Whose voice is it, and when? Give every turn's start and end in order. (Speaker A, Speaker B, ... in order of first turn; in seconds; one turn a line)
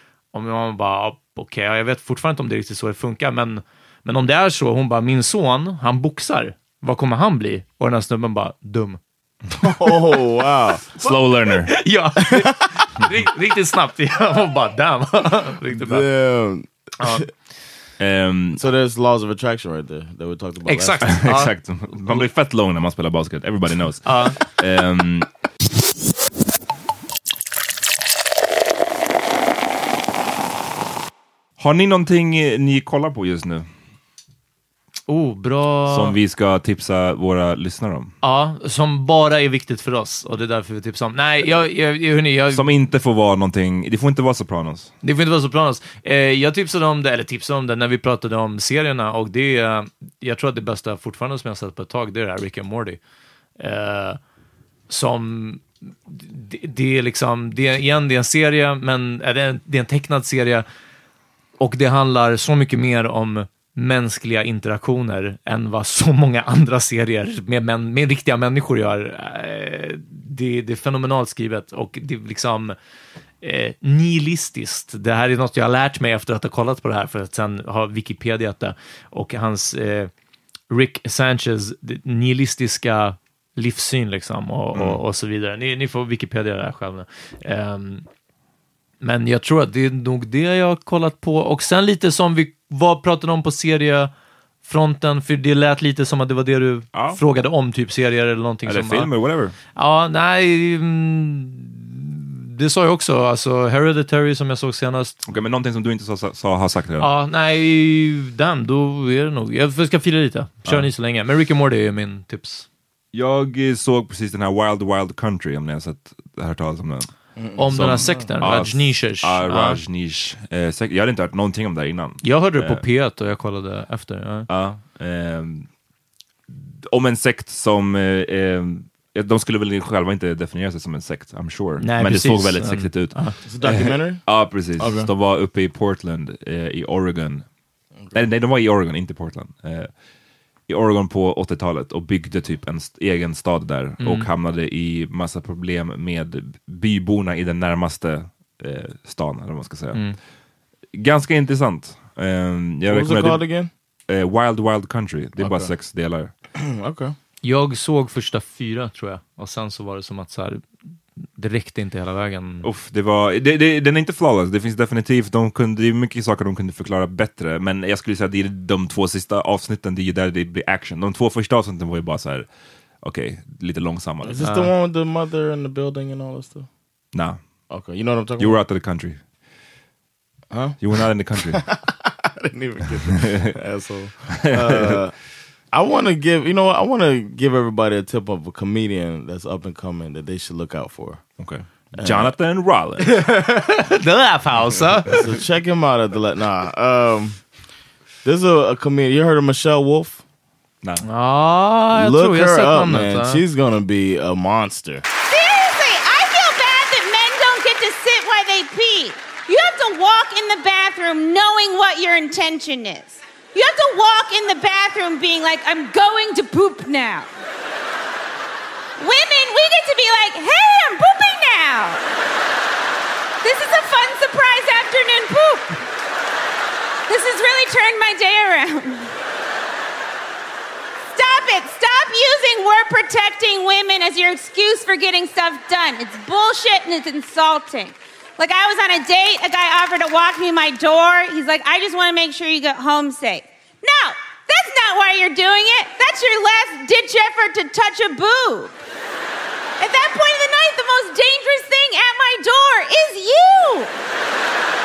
Speaker A: 0.3-9.0
Speaker B: 9.6-10.8
Speaker A: 11.0-16.1
Speaker C: 11.0-11.8
Speaker B: 15.7-17.3
Speaker A: 17.0-17.2
Speaker C: 18.0-18.6
Speaker B: 18.6-21.3
Speaker A: 20.7-22.2
Speaker C: 21.1-25.3
Speaker A: 24.0-24.4
Speaker C: 31.6-33.7
Speaker A: 35.1-36.2
Speaker C: 35.9-38.1
Speaker A: 38.2-42.6
Speaker C: 42.5-44.9
Speaker A: 45.0-53.0
Speaker A: 53.6-54.2
Speaker A: 54.9-60.7
Speaker A: 61.6-72.8
Speaker A: 73.4-80.1
Speaker A: 80.7-88.1
Speaker C: 84.8-85.0
Speaker A: 89.0-94.1
Speaker A: 94.7-99.1
Speaker C: 96.9-97.2
Speaker C: 98.7-99.5
Speaker A: 99.8-105.2
Speaker C: 105.3-107.1
Speaker A: 107.0-112.7
Speaker C: 113.1-117.1
Speaker B: 117.4-118.4
Speaker A: 117.6-119.8
Speaker C: 117.7-122.8
Speaker A: 122.2-124.5
Speaker C: 124.5-125.7
Speaker C: 126.5-137.5
Speaker A: 131.8-133.4
Speaker B: 133.4-135.1
Speaker C: 138.1-139.9
Speaker C: 140.7-150.2
Speaker A: 144.0-144.3
Speaker C: 150.9-156.3
Speaker B: 152.9-153.7
Speaker B: 155.4-155.7
Speaker B: 156.6-157.2
Speaker A: 157.4-160.7
Speaker A: 161.2-162.7
Speaker C: 162.6-172.5
Speaker C: 173.0-174.4
Speaker B: 174.2-176.7
Speaker A: 174.4-174.7
Speaker C: 177.1-177.4
Speaker B: 177.7-178.6
Speaker C: 178.4-179.2
Speaker B: 180.5-185.1
Speaker C: 180.8-181.7
Speaker C: 184.4-185.0
Speaker B: 185.7-191.3
Speaker C: 191.4-193.2
Speaker B: 192.0-192.3
Speaker A: 193.0-195.2
Speaker B: 195.1-197.4
Speaker B: 198.2-200.2
Speaker A: 201.0-203.4
Speaker B: 201.9-205.0
Speaker D: 205.3-217.3
Speaker D: 219.0-222.0
Speaker D: 223.4-225.8
Speaker D: 227.1-229.1
Speaker D: 231.1-248.8
Speaker D: 249.8-253.9